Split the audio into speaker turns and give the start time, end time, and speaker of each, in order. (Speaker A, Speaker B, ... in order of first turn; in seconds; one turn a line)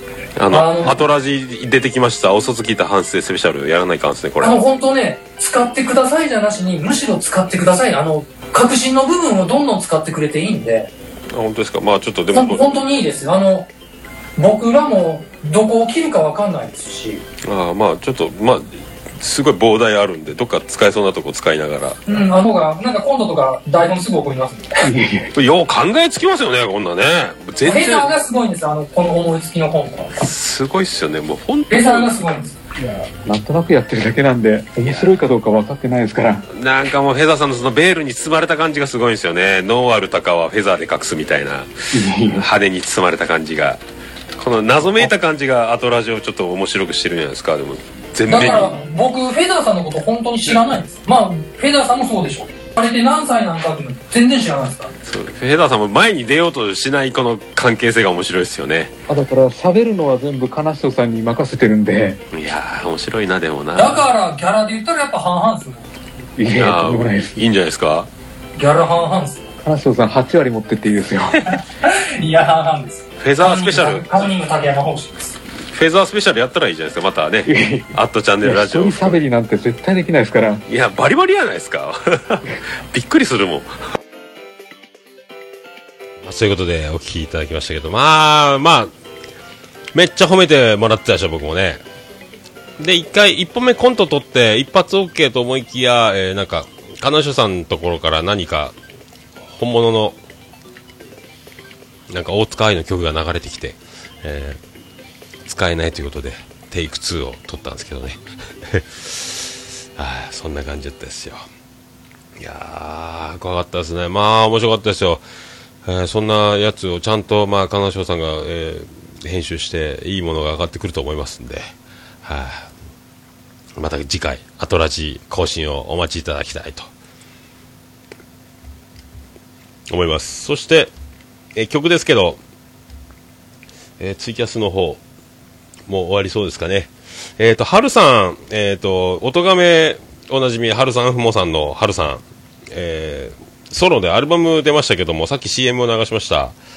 Speaker A: 0.4-4.6
Speaker B: 0.5-1.0
Speaker B: 4.4-10.9
Speaker A: 11.3-12.7
Speaker B: 12.3-13.7
Speaker B: 14.4-17.2
Speaker A: 17.4-22.0
Speaker B: 22.1-24.9
Speaker C: 24.8-25.3
Speaker A: 25.3-28.1
Speaker B: 27.6-30.1
Speaker A: 30.2-32.1
Speaker B: 31.7-32.6
Speaker C: 32.8-36.5
Speaker A: 34.9-35.2
Speaker A: 36.5-43.8
Speaker C: 41.9-42.5
Speaker A: 44.4-48.7
Speaker B: 48.3-54.9
Speaker A: 55.0-58.9
Speaker C: 59.1-62.2
Speaker A: 62.3-64.1
Speaker B: 63.8-65.9
Speaker C: 66.4-67.4
Speaker A: 66.6-68.1
Speaker B: 68.6-69.5
Speaker C: 69.6-71.4
Speaker B: 71.8-75.4
Speaker A: 73.2-74.3
Speaker A: 75.7-79.2
Speaker C: 77.5-80.6
Speaker A: 80.7-83.8
Speaker A: 86.2-88.9
Speaker A: 89.9-91.8
Speaker A: 92.8-98.8
Speaker A: 99.5-100.2
Speaker A: 102.1-104.6
Speaker A: 105.5-111.5
Speaker A: 112.4-115.2
Speaker A: 115.8-121.7
Speaker A: 122.2-122.7
Speaker A: 123.8-126.9
Speaker A: 129.9-130.9
Speaker A: 131.6-132.4
Speaker A: 134.0-135.0
Speaker A: 135.9-146.6